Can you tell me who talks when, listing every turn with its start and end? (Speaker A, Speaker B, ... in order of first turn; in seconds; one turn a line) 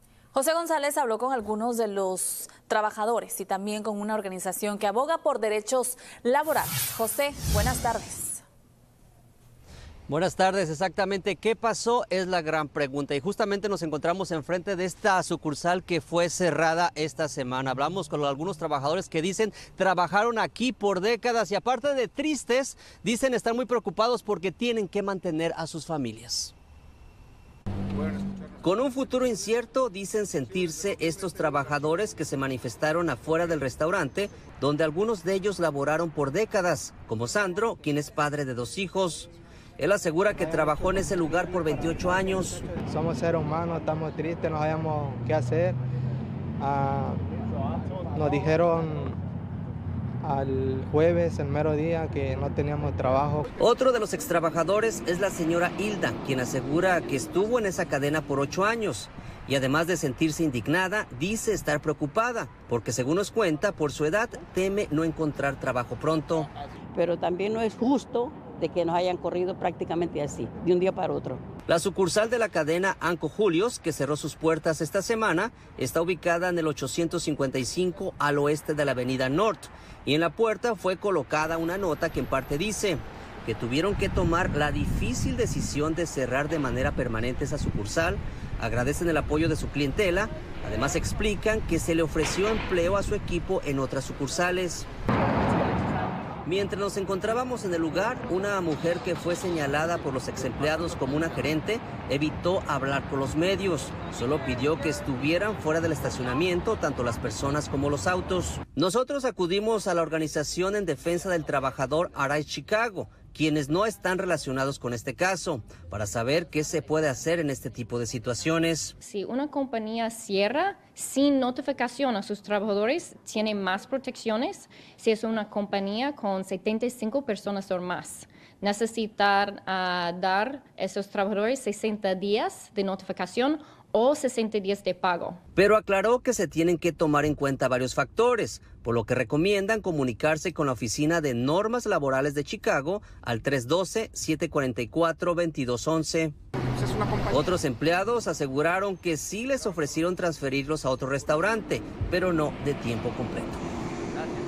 Speaker A: 0.3-8.4
Speaker B: 10.1-26.5
Speaker B: 28.6-42.6
Speaker C: 42.4-45.8
Speaker C: 46.6-47.2
Speaker C: 48.1-49.2
Speaker C: 50.2-53.5
Speaker B: 53.6-66.5
Speaker D: 67.0-71.4
Speaker B: 71.7-94.9
Speaker B: 96.5-118.9
Speaker E: 119.0-135.4
Speaker B: 135.6-146.3
Speaker B: 147.3-153.6